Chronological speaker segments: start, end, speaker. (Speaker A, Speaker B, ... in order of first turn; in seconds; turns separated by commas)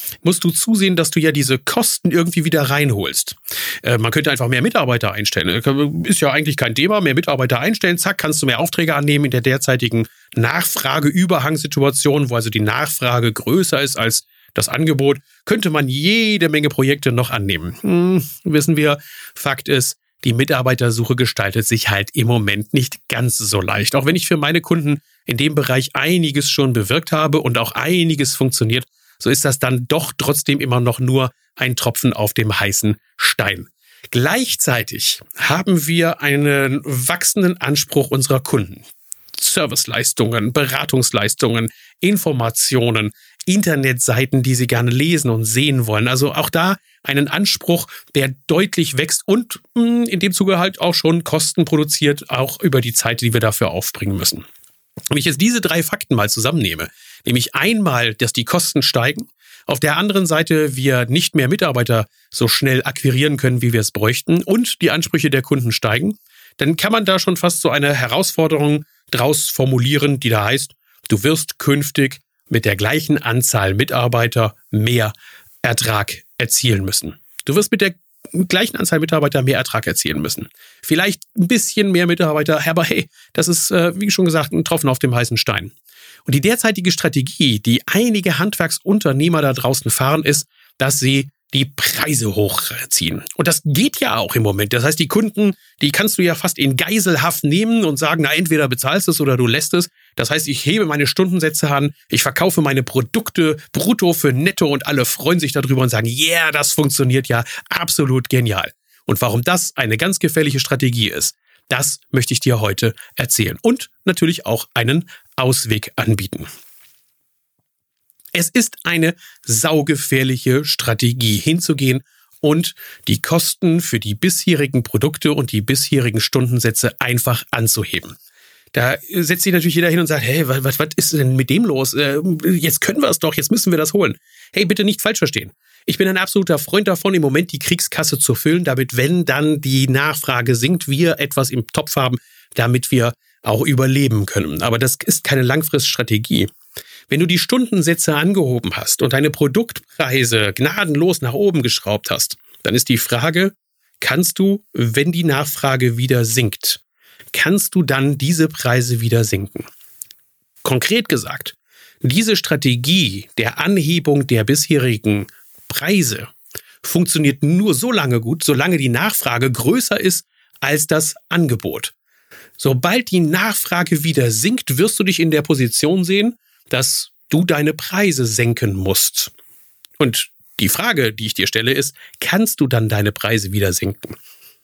Speaker A: 0.2-54.5, Speaker A: 55.1-85.7, Speaker A: 86.3-116.5, Speaker A: 118.3-128.1, Speaker A: 128.7-146.5, Speaker A: 147.1-156.8, Speaker A: 157.3-159.7, Speaker A: 160.6-166.3, Speaker A: 166.8-171.9, Speaker A: 172.6-179.3, Speaker A: 180.0-184.2